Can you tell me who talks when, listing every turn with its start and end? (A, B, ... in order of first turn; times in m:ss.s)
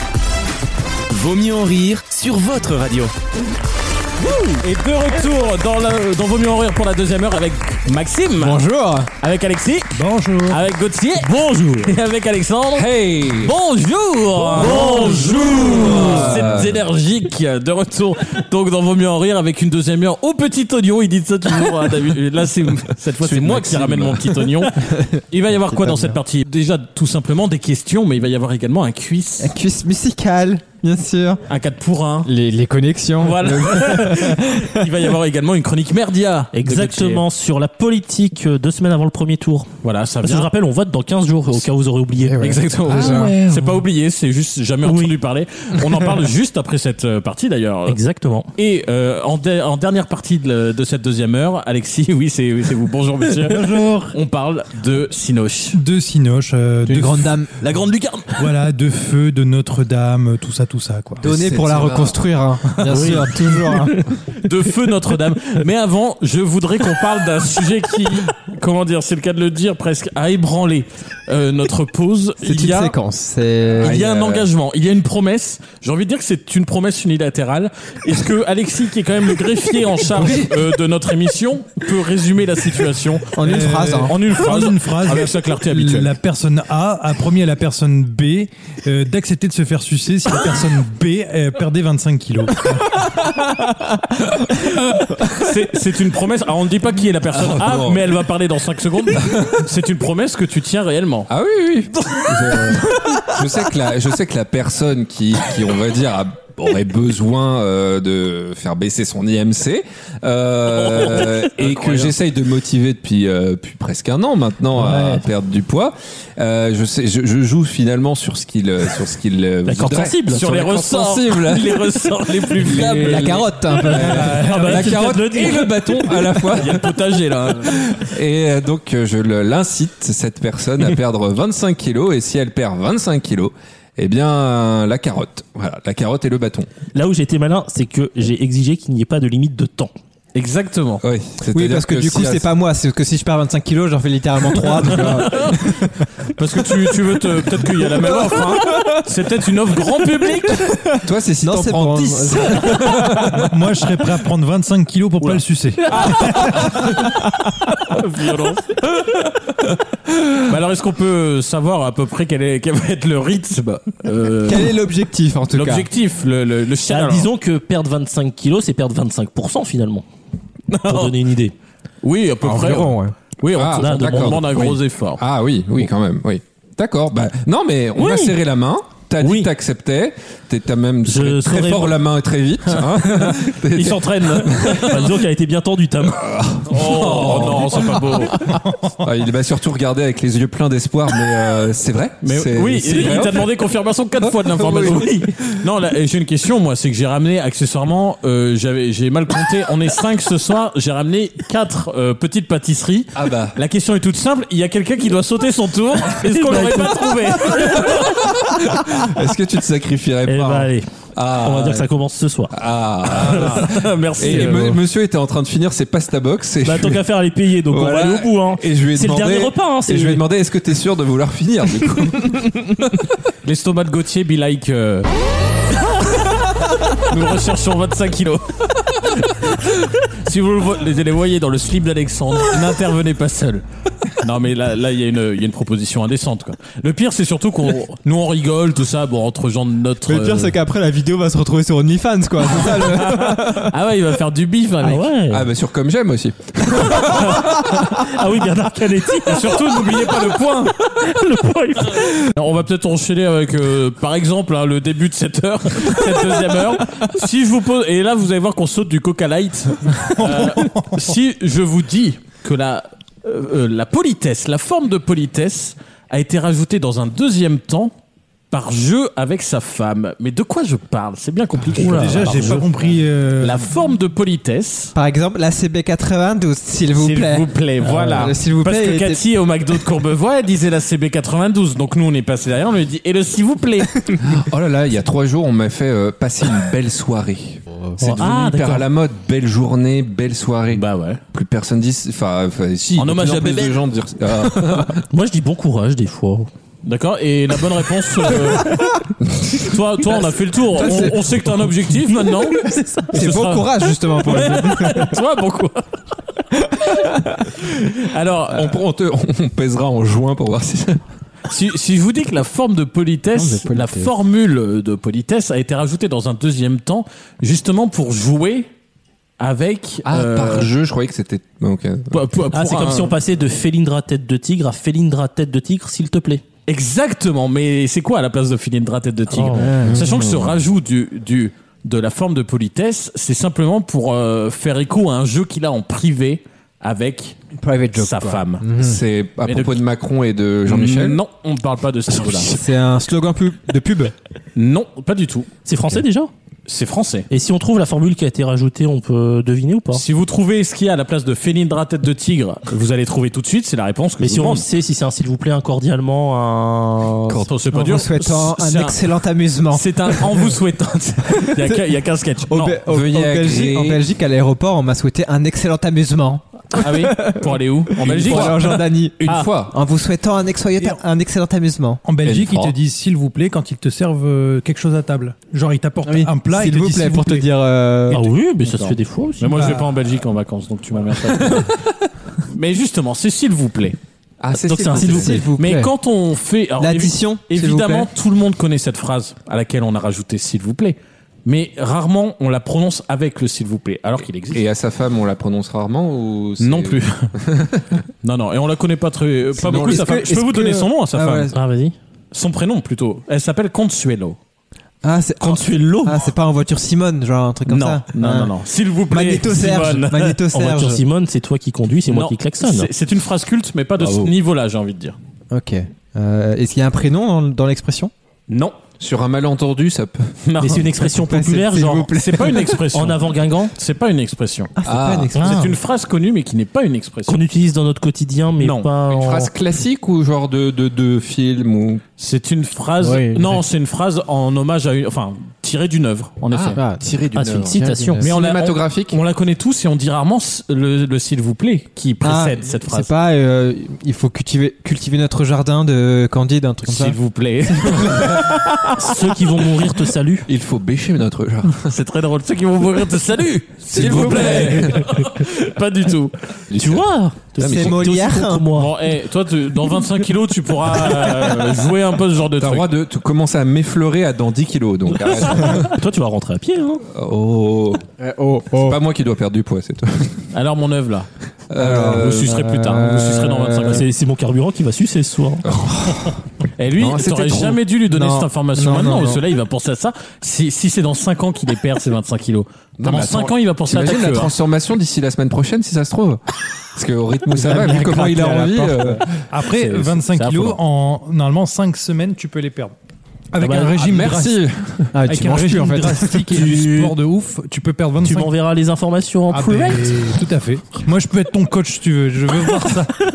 0:01.1-0:03.1 A
0:04.2-0:08.6 B
0:08.4-0:09.1 C
0:09.2-0:09.9 B
0:09.9-0:10.6 D
0:10.5-0:29.5 B
0:12.7-0:13.6 E
0:14.6-0:16.8 E
0:14.8-0:15.4 D
0:23.1-0:24.7 E
0:24.9-0:26.2 C
0:29.4-0:31.4 C
0:31.5-0:32.3 B
0:32.2-0:34.9 C
0:33.2-0:37.2 B
0:36.5-0:39.7 F
0:39.8-0:40.5 B
0:40.2-0:42.7 F
0:42.2-0:43.4 C
0:42.7-0:48.0 B
0:42.9-0:43.8 E
0:44.8-0:45.2 F
0:47.9-0:48.5 F
0:48.6-0:55.8 B
0:53.8-0:54.0 D
0:55.7-0:57.4 D
0:56.8-0:57.5 C
0:57.6-0:58.4 B
0:58.3-1:01.2 D
1:01.2-1:04.1 C
1:01.2-1:02.2 E
1:02.9-1:04.1 F
1:02.9-1:03.2 B
1:04.4-1:12.9 B
1:12.4-1:14.0 C
1:13.8-1:14.5 E
1:13.8-1:26.1 B
1:20.2-1:20.5 E
1:23.4-1:24.2 C
1:23.4-1:33.0 D
1:33.6-1:34.0 C
1:35.2-1:41.3 B
1:37.3-1:38.2 E
1:39.2-1:39.6 E
1:41.3-2:06.9 E
1:50.7-1:52.1 B
1:54.8-1:55.2 C
1:59.6-2:00.7 F
2:00.3-2:03.4 B
2:02.7-2:06.7 F
2:03.0-2:04.4 C
2:04.1-2:05.0 B
2:06.5-2:07.8 B
2:07.6-2:16.7 E
2:16.9-2:19.9 F
2:20.3-2:21.0 B
2:21.0-2:22.5 E
2:21.5-2:26.1 C
2:25.0-2:25.6 B
2:26.3-2:30.7 B
2:28.0-2:28.8 C
2:30.6-2:33.1 C
2:31.0-2:33.5 E
2:33.3-2:36.6 D
2:35.2-2:39.2 B
2:40.4-2:44.7 B
2:44.4-2:45.9 C
2:45.5-2:47.3 B
2:46.9-2:50.0 F
2:50.7-2:51.2 B
2:50.9-2:51.5 F
2:52.0-2:55.2 B
2:52.4-2:53.1 C
2:53.5-3:05.0 E
2:53.8-2:54.6 F
2:58.0-2:58.4 F
2:59.2-2:59.5 F
3:01.0-3:02.0 F
3:02.6-3:06.3 F
3:03.8-3:05.0 B
3:06.1-3:13.5 E
3:06.6-3:08.4 B
3:12.2-3:28.1 B
3:14.2-3:15.4 E
3:23.1-3:23.6 E
3:26.1-3:27.9 F
3:27.6-3:31.9 E
3:30.2-3:32.5 F
3:32.5-3:37.0 E
3:33.1-3:34.8 B
3:33.1-3:33.6 F
3:34.2-3:34.7 F
3:36.6-3:40.2 F
3:37.7-3:43.1 E
3:43.4-3:45.1 B
3:46.9-3:53.6 B
3:54.2-4:00.6 B
4:00.0-4:03.7 C
4:02.6-4:05.0 B
4:04.8-4:05.5 F
4:05.3-4:07.6 E
4:07.1-4:12.3 F
4:09.2-4:10.7 B
4:12.2-4:27.9 B
4:20.1-4:21.0 D
4:28.5-4:32.7 B
4:31.6-4:32.0 C
4:31.7-4:33.7 D
4:33.4-4:34.9 B
4:34.9-4:39.2 C
4:37.0-4:44.0 B
4:44.2-4:55.0 E
4:48.0-4:48.8 B
4:48.0-4:48.8 F
4:50.7-4:51.2 B
4:53.0-4:53.8 B
4:55.0-4:56.5 F
4:56.8-4:59.0 B
4:59.2-4:59.8 E
4:59.6-5:03.7 B
5:00.7-5:01.8 C
5:02.5-5:02.8 F
5:02.7-5:05.2 C
5:04.2-5:05.9 B
5:06.8-5:07.2 C
5:07.6-5:08.8 B
5:08.5-5:11.0 E
5:11.5-5:18.7 B
5:13.3-5:14.1 C
5:19.4-5:20.7 B
5:20.0-5:22.5 E
5:22.1-5:23.1 B
5:22.5-5:26.4 F
5:26.7-5:37.4 B
5:29.3-5:29.8 F
5:29.5-5:30.2 C
5:29.8-5:30.6 E
5:37.6-5:39.0 C
5:38.0-5:38.6 B
5:38.8-5:41.2 E
5:39.4-5:39.8 B
5:40.7-5:42.5 B
5:42.3-5:44.1 C
5:44.6-5:45.5 B
5:45.6-5:46.3 F
5:46.7-5:47.3 B
5:47.3-5:50.0 F
5:49.9-5:54.6 B
5:54.2-5:57.4 F
5:57.4-5:59.0 B
5:57.7-6:00.5 C
5:59.7-6:02.8 B
6:01.3-6:01.9 C
6:02.5-6:12.0 C
6:02.9-6:04.0 E
6:06.7-6:08.8 B
6:08.0-6:09.8 E
6:12.0-6:17.4 D
6:12.2-6:12.7 E
6:16.0-6:18.2 C
6:18.1-6:19.8 F
6:18.6-6:21.7 B
6:22.5-6:24.0 B
6:24.4-6:25.5 E
6:24.6-6:25.5 F
6:24.8-6:25.9 C
6:25.6-6:34.6 B
6:26.8-6:28.1 C
6:34.5-6:38.0 E
6:36.6-6:37.3 B
6:38.2-6:41.5 B
6:39.6-6:41.6 C
6:39.7-6:40.0 E
6:41.5-6:41.9 F
6:42.3-6:44.4 B
6:45.0-6:48.5 C
6:45.4-6:46.2 F
6:47.7-6:50.4 B
6:49.1-6:51.0 C
6:50.5-6:52.9 F
6:52.1-6:55.2 B
6:54.0-6:54.3 E
6:55.5-6:58.1 C
6:58.5-6:58.8 B
6:59.0-7:00.3 E
7:00.4-7:00.9 B
7:00.6-7:02.2 F
7:00.7-7:02.3 C
7:02.1-7:04.7 B
7:02.9-7:03.7 F
7:04.8-7:05.8 C
7:04.8-7:05.3 E
7:05.3-7:05.7 F
7:05.4-7:07.4 B
7:07.3-7:09.5 F
7:08.6-7:08.9 B
7:09.1-7:12.0 E
7:12.2-7:16.8 B
7:13.0-7:13.6 C
7:16.5-7:19.2 E
7:16.7-7:18.2 C
7:17.3-7:18.2 F
7:18.2-7:23.1 B
7:22.2-7:27.2 C
7:26.8-7:28.6 B
7:27.7-7:28.7 C
7:28.9-7:30.5 F
7:30.4-7:32.0 E
7:31.8-7:36.3 B
7:33.9-7:35.0 C
7:33.9-7:35.1 E
7:36.7-7:38.0 E
7:36.8-7:39.0 F
7:37.6-7:38.7 C
7:38.7-7:42.9 B
7:42.6-7:46.0 E
7:45.1-7:47.0 F
7:47.1-7:48.1 E
7:48.2-7:49.0 C
7:48.7-7:50.4 E
7:50.5-7:51.3 B
7:51.7-7:52.6 E
7:51.8-7:54.0 C
7:52.0-7:54.0 B
7:53.9-7:55.6 F
7:55.6-7:56.4 E
7:56.8-8:04.5 B
7:57.0-7:57.7 E
7:57.3-7:59.4 C
8:03.0-8:06.4 E
8:06.9-8:09.4 E
8:07.5-8:09.2 C
8:09.5-8:12.9 D
8:09.7-8:10.8 B
8:13.5-8:14.6 D
8:13.6-8:13.9 F
8:13.8-8:15.2 E
8:15.1-8:16.6 C
8:15.3-8:18.5 D
8:16.5-8:17.1 F
8:18.2-8:20.3 F
8:19.5-8:23.2 D